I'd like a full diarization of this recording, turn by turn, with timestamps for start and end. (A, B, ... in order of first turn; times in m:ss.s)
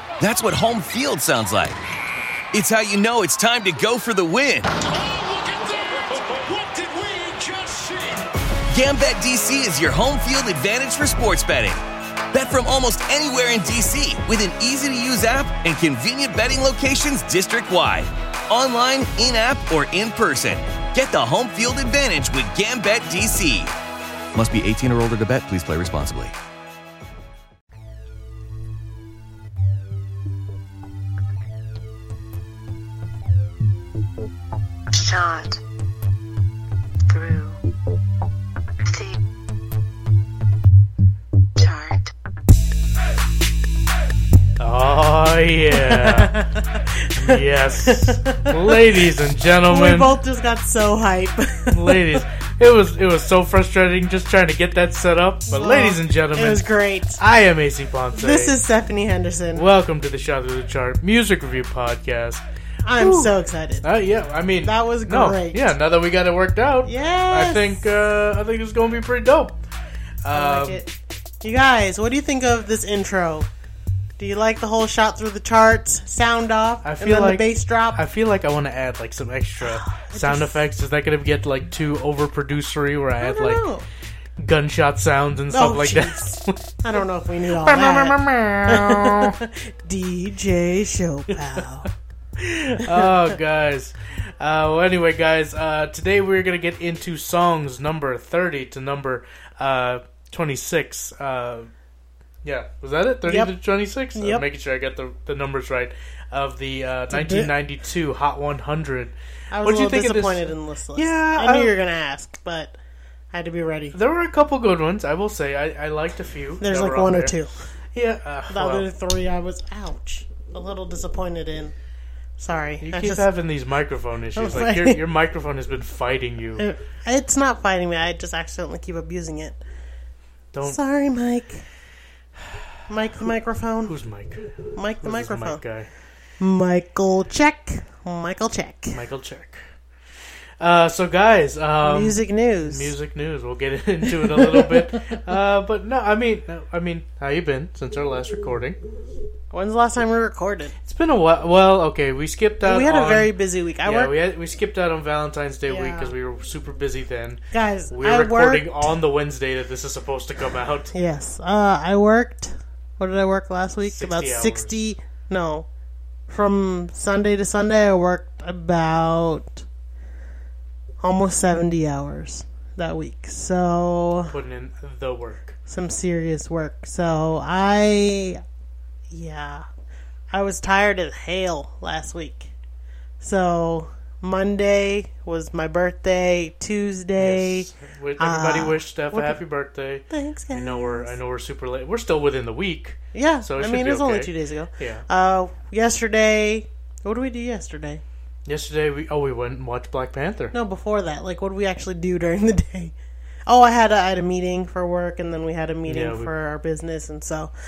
0:00.2-0:01.8 A
0:02.5-0:04.7 A
0:04.7-0:08.3 B
0:08.7-0:11.8 A
0:12.3-0:23.7 A
0:24.3-0:26.3 A
0:34.9-0:35.6 C
0:37.1-0:37.6 C
0:38.9-0:39.2 C
0:41.6-0:42.1 C
0:44.6-0:46.4 D
0:45.7-0:49.0 E
0:47.2-0:50.1 D
0:49.7-0:52.2 E
0:51.7-0:58.6 D
0:55.5-0:57.2 E
0:58.1-0:59.6 E
0:59.5-1:02.4 D
1:02.8-1:03.9 E
1:03.0-1:09.6 D
1:04.6-1:05.6 E
1:06.8-1:07.8 E
1:10.2-1:10.8 D
1:10.3-1:13.5 E
1:14.2-1:18.0 E
1:16.8-1:23.6 D
1:19.6-1:20.6 E
1:23.2-1:23.8 E
1:24.4-1:26.7 D
1:25.5-1:31.9 E
1:27.5-1:29.4 D
1:31.3-1:41.7 D
1:32.8-1:33.1 E
1:42.4-1:51.7 D
1:43.3-1:43.6 E
1:44.1-1:44.4 E
1:47.1-1:47.5 E
1:49.5-1:52.8 E
1:53.3-1:54.0 E
1:53.9-1:57.3 D
1:56.6-1:57.5 E
1:57.9-1:58.9 D
1:58.5-2:01.7 E
2:02.4-2:03.2 E
2:02.8-2:06.6 D
2:04.3-2:05.0 E
2:06.6-2:09.6 E
2:10.5-2:10.8 D
2:10.6-2:11.6 E
2:12.4-2:12.7 D
2:12.9-2:13.9 E
2:13.8-2:15.9 D
2:14.7-2:15.6 E
2:16.4-2:19.0 E
2:18.9-2:19.7 D
2:20.6-2:28.8 D
2:21.8-2:22.9 E
2:24.2-2:24.8 E
2:29.5-2:30.8 E
2:30.8-2:33.3 D
2:32.6-2:34.1 E
2:33.8-2:40.9 D
2:35.7-2:36.1 E
2:37.5-2:38.9 E
2:40.9-2:45.7 E
2:43.8-2:44.8 D
2:46.3-2:49.6 E
2:51.0-2:54.3 E
2:54.3-2:55.6 D
2:55.7-2:58.4 E
2:59.1-2:59.6 E
3:00.3-3:02.5 E
3:03.2-3:09.4 E
3:07.2-3:15.0 D
3:10.1-3:11.1 E
3:13.1-3:18.0 E
3:18.4-3:20.5 D
3:20.5-3:22.9 E
3:23.5-3:27.5 E
3:25.9-3:26.3 D